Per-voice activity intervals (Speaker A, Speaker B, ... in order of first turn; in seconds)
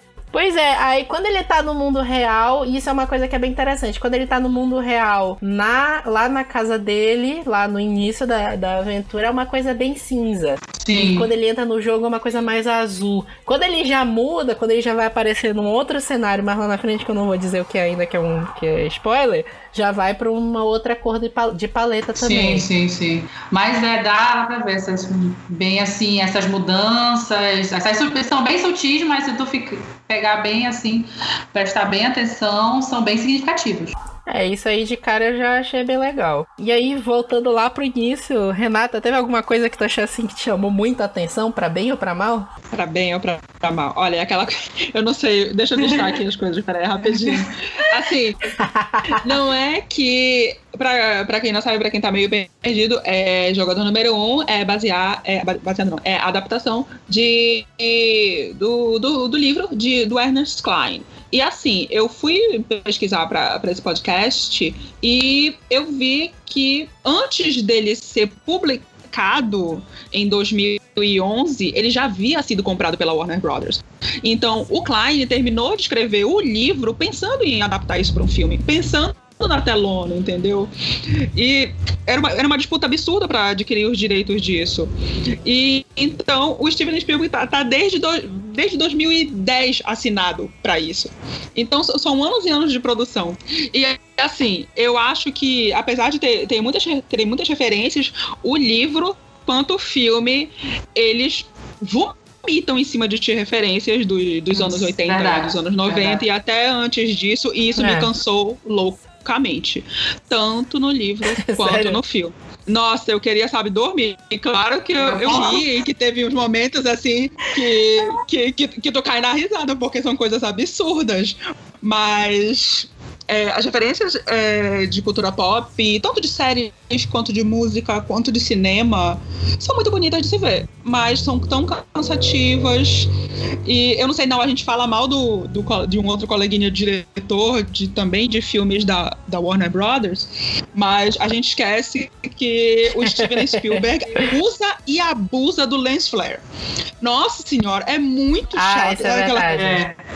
Speaker A: 0.3-22.6, 34.3-42.5, 48.6-49.2, 107.8-108.1, 111.2-112.0, 143.0-144.3, 148.5-149.8
Speaker B: 10.8-11.3, 22.2-33.9, 45.8-46.1, 104.6-106.2, 115.0-115.6, 149.5-150.0
Speaker C: 42.7-48.5, 49.1-84.9, 85.4-133.1, 133.6-146.4, 147.0-149.6